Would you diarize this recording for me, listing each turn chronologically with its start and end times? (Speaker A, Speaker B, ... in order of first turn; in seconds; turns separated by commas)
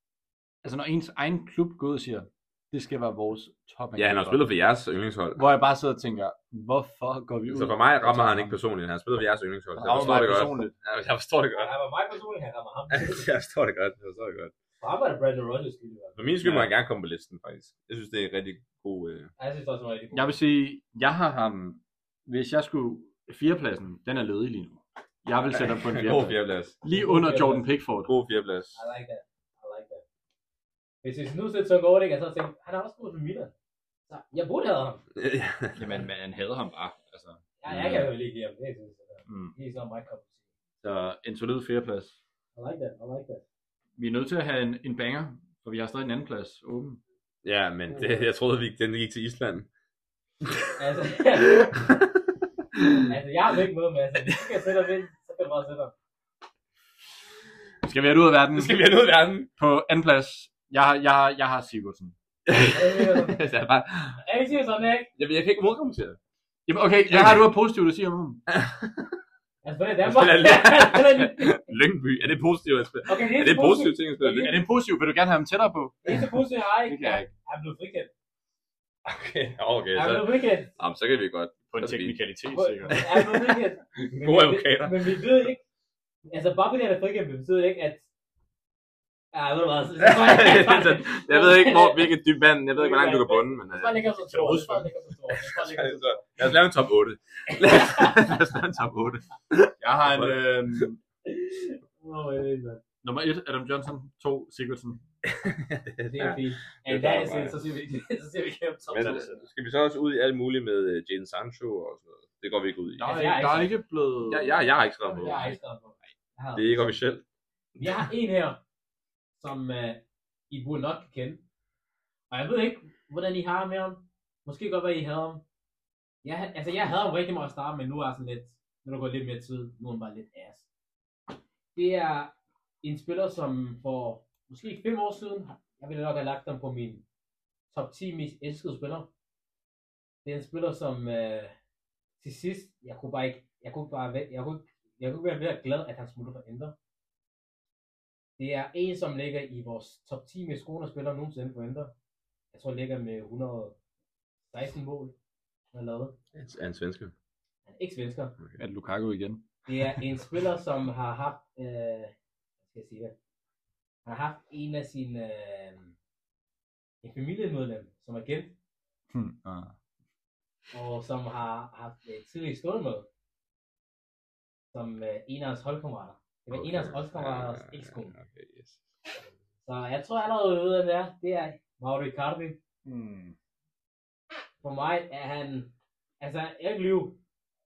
Speaker A: 0.6-4.5, Speaker B: 4.0-5.4, Speaker A: 5.3-8.6, Speaker B: 7.5-11.7, Speaker A: 9.8-10.7, Speaker C: 11.5-13.3, Speaker B: 12.9-14.5, Speaker C: 14.8-16.2, Speaker B: 16.1-19.3, Speaker A: 16.4-16.7, Speaker C: 19.4-20.3, Speaker A: 20.1-28.1, Speaker B: 25.5-26.8, Speaker C: 26.9-27.7, Speaker B: 28.0-28.8, Speaker C: 28.7-30.0, Speaker C: 31.0-33.5, Speaker C: 34.1-35.0, Speaker B: 35.1-36.0, Speaker A: 35.8-37.4, Speaker C: 37.6-40.4, Speaker B: 37.7-38.1, Speaker A: 39.3-39.5, Speaker A: 40.8-42.2, Speaker C: 42.5-43.4, Speaker A: 44.0-47.0, Speaker B: 47.4-49.7, Speaker C: 47.9-48.3, Speaker C: 50.8-51.6, Speaker B: 51.5-52.2, Speaker B: 52.8-53.1, Speaker C: 53.1-55.9, Speaker A: 57.8-58.9, Speaker B: 58.5-59.5, Speaker A: 59.6-62.1, Speaker B: 62.5-64.2, Speaker C: 62.7-63.4, Speaker C: 64.2-65.1, Speaker B: 65.2-66.2, Speaker A: 66.7-68.4, Speaker B: 67.1-67.5, Speaker B: 68.5-69.1, Speaker C: 69.6-71.7, Speaker B: 70.0-74.5, Speaker C: 73.1-74.6, Speaker A: 74.4-76.2, Speaker C: 76.0-78.1, Speaker A: 76.8-77.3, Speaker B: 79.0-82.2, Speaker C: 79.9-80.7, Speaker A: 81.7-83.0, Speaker C: 82.5-85.6, Speaker B: 82.9-85.3, Speaker C: 86.3-88.0, Speaker C: 89.3-92.1, Speaker B: 90.0-100.8, Speaker C: 92.7-96.5, Speaker C: 97.5-98.2, Speaker A: 99.8-101.0, Speaker C: 101.2-102.8, Speaker A: 103.0-105.0, Speaker B: 105.2-107.6, Speaker C: 106.1-109.4, Speaker B: 108.9-113.1, Speaker A: 109.0-109.3, Speaker A: 113.0-114.7, Speaker C: 113.0-113.7, Speaker B: 114.2-115.6, Speaker C: 115.0-116.9, Speaker A: 115.2-115.6, Speaker B: 116.5-117.2, Speaker C: 117.8-118.6, Speaker C: 119.4-121.4, Speaker C: 122.3-125.4, Speaker C: 126.2-130.7, Speaker C: 131.7-137.0, Speaker C: 137.7-139.1, Speaker C: 140.2-141.5, Speaker C: 142.2-146.7, Speaker C: 148.4-151.9, Speaker C: 152.5-153.8, Speaker C: 154.5-155.1, Speaker C: 155.7-156.2, Speaker B: 156.3-157.1, Speaker C: 157.7-158.4, Speaker A: 158.6-160.0, Speaker C: 159.7-162.1, Speaker C: 162.7-163.1, Speaker C: 164.0-165.9, Speaker C: 167.0-168.5, Speaker A: 169.1-169.7, Speaker C: 170.7-173.1, Speaker C: 174.7-178.1, Speaker B: 176.5-178.8, Speaker C: 179.7-182.6, Speaker A: 182.8-183.3, Speaker C: 184.6-187.2